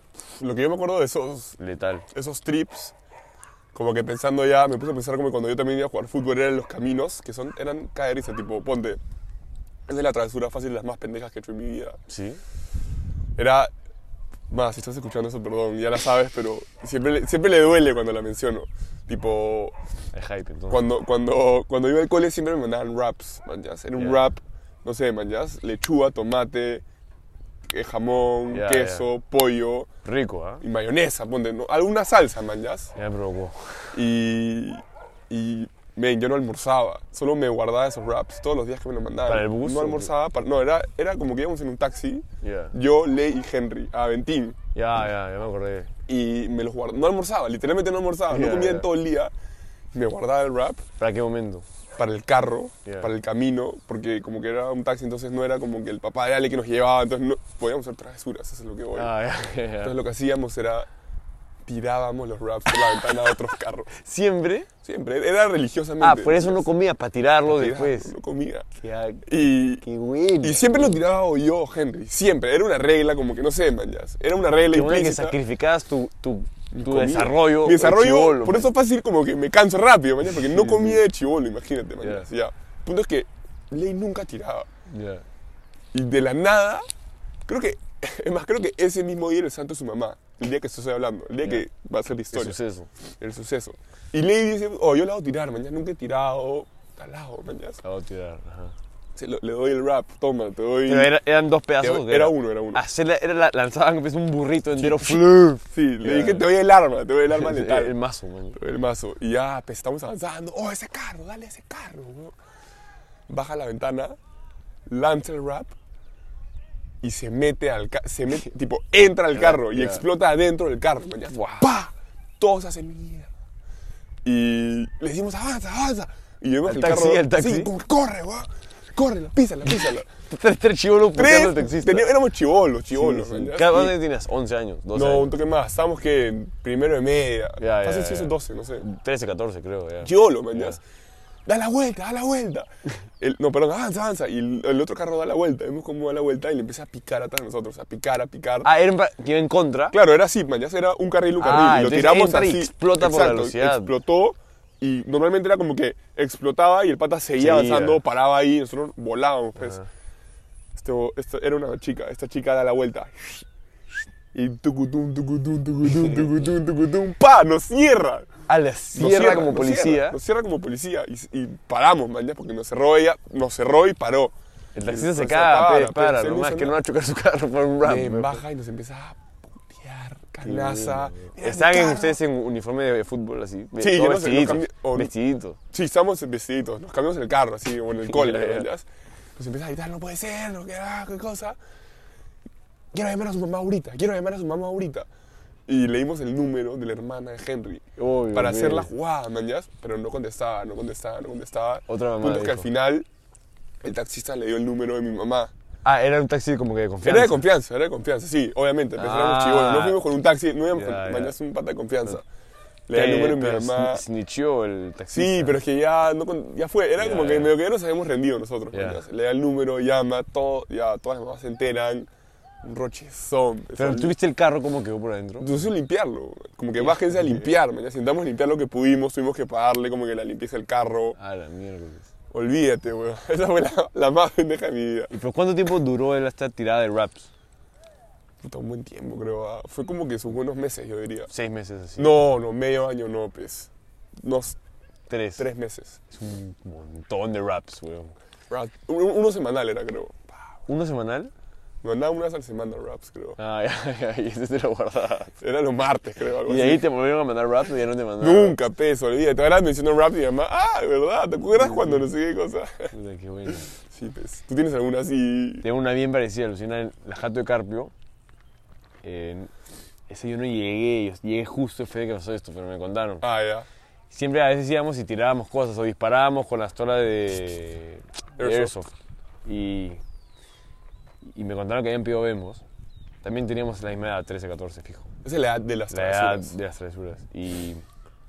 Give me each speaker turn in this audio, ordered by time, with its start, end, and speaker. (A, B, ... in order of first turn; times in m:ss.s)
0:00.3-0:01.6 A
0:01.6-0:02.1 B
0:02.1-0:03.0 A
0:03.7-0:09.0 A
0:09.9-0:12.0 A
0:12.1-0:12.4 B
0:13.4-0:13.7 A
0:14.5-0:19.8 A
0:20.1-0:20.8 B
0:20.7-0:26.8 A
0:24.0-0:24.2 B
0:27.7-0:29.9 A
0:28.5-0:29.1 B
0:30.0-0:30.6 B
0:30.6-0:32.9 A
0:33.0-0:34.0 B
0:33.9-0:44.6 A
0:39.3-0:40.1 B
0:42.4-0:42.7 B
0:44.7-0:45.9 B
0:46.1-0:49.3 A
0:48.3-0:48.9 B
0:49.9-0:50.8 A
0:51.0-0:51.7 B
0:52.0-0:59.1 A
0:52.8-0:53.1 B
0:58.9-1:00.0 B
0:59.8-1:00.9 A
1:01.7-1:03.9 A
1:02.9-1:03.4 B
1:03.9-1:04.7 B
1:04.8-1:06.7 A
1:06.0-1:08.1 B
1:07.5-1:08.7 A
1:08.8-1:09.3 B
1:09.2-1:09.8 A
1:09.8-1:11.0 B
1:10.4-1:15.4 A
1:14.7-1:18.7 B
1:16.7-1:24.7 A
1:20.3-1:21.0 B
1:22.0-1:22.3 B
1:24.9-1:25.2 B
1:25.9-1:26.8 A
1:27.5-1:32.6 A
1:32.3-1:32.9 B
1:33.2-1:37.8 A
1:37.8-1:38.8 B
1:39.2-1:41.1 A
1:40.9-1:46.5 B
1:41.8-1:42.8 A
1:44.8-1:48.0 A
1:47.3-1:48.6 B
1:48.5-1:52.4 A
1:53.3-1:54.2 A
1:54.9-1:55.7 A
1:57.0-2:03.3 A
1:59.3-2:00.0 B
2:01.3-2:01.7 B
2:04.2-2:10.1 A
2:06.6-2:07.7 B
2:10.3-2:12.1 B
2:11.1-2:14.0 A
2:12.9-2:15.4 B
2:14.9-2:18.8 A
2:17.6-2:20.8 B
2:20.0-2:20.8 A
2:21.5-2:22.7 A
2:23.2-2:28.7 A
2:28.6-2:30.0 B
2:29.9-2:39.8 A
2:31.4-2:33.9 B
2:37.4-2:38.0 B
2:39.6-2:39.9 B
2:40.7-2:43.5 A
2:44.3-2:48.4 A
2:48.5-2:50.2 B
2:49.0-2:54.3 A
2:54.8-2:58.4 B
2:54.9-2:56.8 A
2:57.8-3:02.2 A
3:00.4-3:05.6 B
3:03.8-3:05.1 A
3:05.7-3:11.6 A
3:08.1-3:08.7 B
3:12.9-3:15.1 A
3:15.7-3:23.1 A
3:18.0-3:18.9 B
3:21.9-3:22.7 B
3:23.8-3:25.5 A
3:25.8-3:27.4 B
3:27.0-3:32.2 A
3:29.0-3:30.0 B
3:30.7-3:31.3 B
3:32.9-3:34.0 A
3:32.9-3:35.6 B
3:35.1-3:42.1 A
3:37.0-3:37.5 B
3:38.7-3:39.0 B
3:42.6-3:44.1 A
3:43.8-3:45.6 B
3:45.4-3:51.2 A
3:46.8-3:47.5 B
3:51.2-3:52.1 B
3:52.3-3:55.1 A
3:55.1-3:57.3 B
3:58.4-4:01.3 A
4:01.3-4:02.1 B
4:02.0-4:04.6 A
4:05.1-4:05.5 B
4:05.4-4:06.0 A
4:06.1-4:08.2 B
4:08.5-4:10.3 A
4:10.7-4:11.3 B
4:11.8-4:13.4 A
4:13.4-4:15.4 B
4:15.4-4:16.9 A
4:16.4-4:18.6 B
4:18.2-4:22.9 A
4:21.6-4:22.0 B
4:22.9-4:23.7 B
4:23.5-4:25.6 A
4:25.6-4:27.9 B
4:29.0-4:29.5 B
4:30.1-4:33.2 B
4:33.2-4:33.7 A
4:34.1-4:38.9 B
4:38.4-4:38.7 A
4:39.4-4:40.0 B
4:41.2-4:42.6 B
4:43.2-4:45.1 B
4:45.2-4:46.5 A
4:45.9-4:47.8 B